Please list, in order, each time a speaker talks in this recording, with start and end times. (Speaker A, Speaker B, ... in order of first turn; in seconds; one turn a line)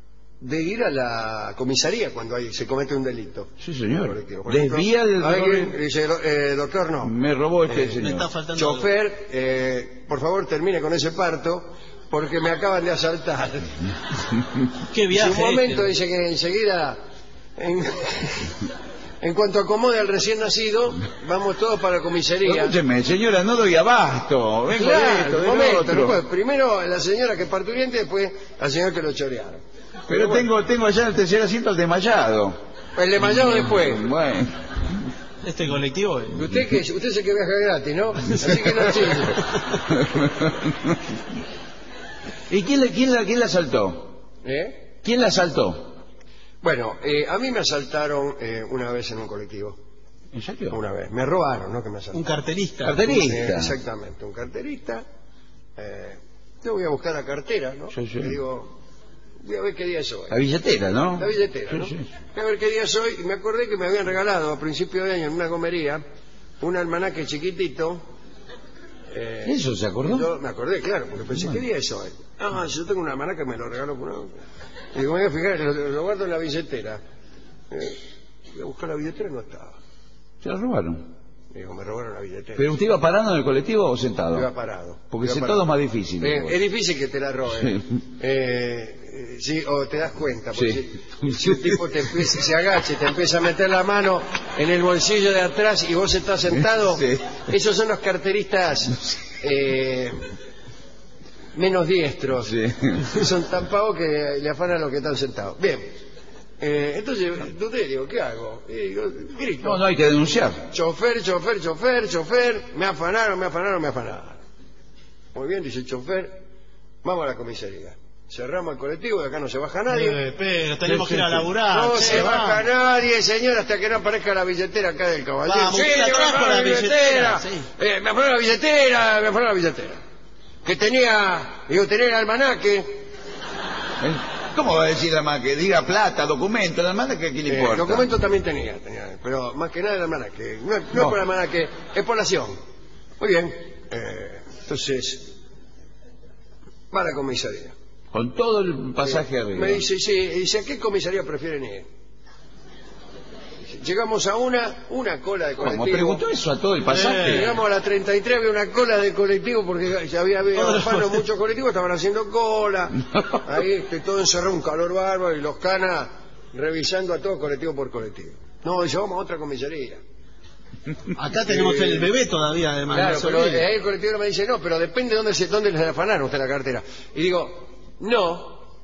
Speaker A: 0.4-7.1
Speaker B: 3.6-5.7
Speaker B: 7.0-8.3
Speaker A: 7.7-8.0
Speaker C: 8.0-8.9
Speaker A: 8.5-13.8
Speaker C: 14.9-15.9
Speaker A: 15.1-17.0
Speaker A: 17.6-18.6
Speaker A: 19.2-22.8
Speaker B: 22.4-26.2
Speaker A: 24.7-30.5
Speaker B: 30.1-32.6
Speaker A: 33.0-34.1
Speaker B: 33.4-35.0
Speaker C: 35.4-36.4
Speaker A: 36.3-39.5
Speaker B: 40.0-40.7
Speaker B: 42.5-44.2
Speaker A: 44.4-44.9
Speaker B: 45.0-46.0
Speaker A: 46.6-49.8
Speaker B: 50.3-50.8
Speaker A: 50.7-52.2
Speaker C: 52.1-53.1
Speaker B: 52.8-53.7
Speaker A: 53.0-55.0
Speaker A: 55.8-58.7
Speaker B: 57.9-58.3
Speaker A: 59.4-60.4
Speaker B: 60.3-62.0
Speaker A: 61.2-66.0
Speaker A: 66.6-68.0
Speaker A: 69.1-74.3
Speaker B: 69.4-70.3
Speaker A: 74.9-77.0
Speaker A: 77.7-78.0
Speaker A: 78.5-79.8
Speaker B: 80.4-81.1
Speaker A: 81.5-82.7
Speaker B: 82.6-84.5
Speaker A: 84.3-85.7
Speaker B: 85.1-86.5
Speaker A: 86.2-100.3
Speaker B: 87.6-87.9
Speaker B: 90.5-91.8
Speaker B: 97.0-97.4
Speaker A: 101.5-105.9
Speaker B: 102.5-103.1
Speaker A: 106.6-109.8
Speaker B: 109.6-110.6
Speaker A: 110.7-114.4
Speaker A: 115.3-116.4
Speaker A: 117.0-120.2
Speaker C: 119.9-122.6
Speaker B: 120.8-121.5
Speaker A: 121.7-130.0
Speaker C: 125.5-127.7
Speaker A: 130.6-133.1
Speaker B: 134.0-138.1
Speaker A: 137.5-142.6
Speaker A: 143.2-145.3
Speaker A: 146.9-147.7
Speaker B: 148.1-149.8
Speaker A: 149.0-151.9
Speaker A: 153.7-156.2
Speaker B: 155.6-157.5
Speaker C: 156.9-157.5
Speaker A: 157.2-170.0
Speaker C: 160.6-161.2
Speaker C: 171.2-173.7
Speaker A: 171.5-172.1
Speaker A: 172.9-178.6